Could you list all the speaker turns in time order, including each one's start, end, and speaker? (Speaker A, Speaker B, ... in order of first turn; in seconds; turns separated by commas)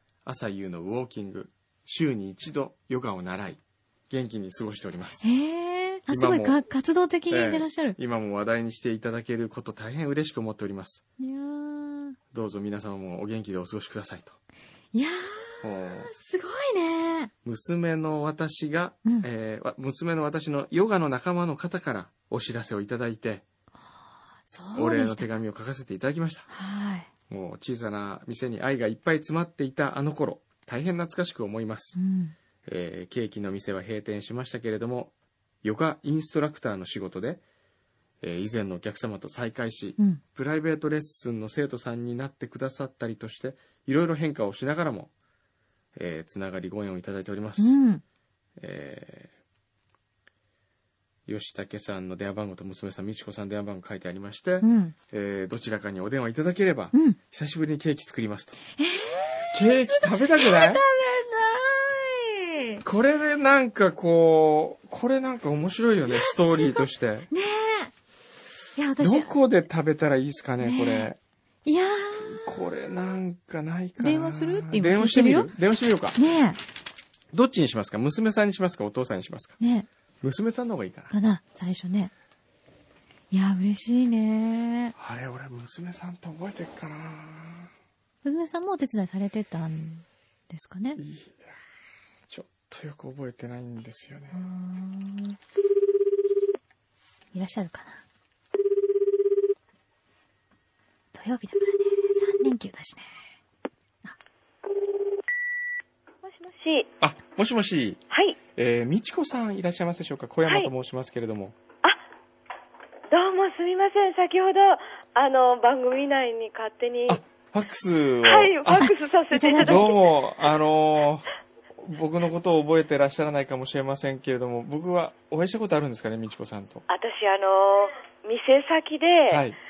Speaker A: 0.2-5.2, Speaker B: 5.2-8.0, Speaker A: 6.1-6.6, Speaker A: 7.3-11.0, Speaker B: 11.2-12.2, Speaker A: 12.3-14.4, Speaker B: 14.9-17.3, Speaker A: 15.6-16.1, Speaker A: 17.4-23.4, Speaker B: 24.5-25.3, Speaker A: 24.8-26.5, Speaker B: 26.5-27.1, Speaker A: 27.3-32.0, Speaker B: 32.0-32.4, Speaker A: 32.7-37.4, Speaker A: 38.2-45.1, Speaker A: 46.0-47.8, Speaker B: 47.6-48.0, Speaker A: 48.6-49.3, Speaker A: 51.3-58.6, Speaker B: 54.6-54.9, Speaker B: 56.9-57.2, Speaker B: 58.8-62.8, Speaker A: 59.5-60.8, Speaker A: 62.8-67.3, Speaker B: 66.1-67.9, Speaker B: 68.8-69.3, Speaker A: 69.0-71.2, Speaker B: 70.6-71.1, Speaker B: 71.7-72.5, Speaker A: 72.2-76.2, Speaker B: 74.0-75.5, Speaker B: 76.2-76.6, Speaker A: 77.3-79.6, Speaker B: 79.6-79.9, Speaker A: 80.2-81.1, Speaker B: 81.1-82.1, Speaker B: 83.3-85.0, Speaker A: 85.0-87.7, Speaker B: 88.2-91.0, Speaker A: 91.0-91.6, Speaker A: 92.3-94.4, Speaker B: 94.3-95.4, Speaker B: 97.3-98.0, Speaker B: 101.1-103.2, Speaker C: 106.2-106.9, Speaker A: 107.0-108.0, Speaker C: 108.1-108.4, Speaker A: 108.6-111.5, Speaker C: 113.1-117.2, Speaker A: 117.1-118.9, Speaker C: 118.2-120.0, Speaker B: 118.8-119.9, Speaker A: 119.6-121.2, Speaker A: 121.8-126.8, Speaker C: 126.9-129.5, Speaker A: 129.3-129.6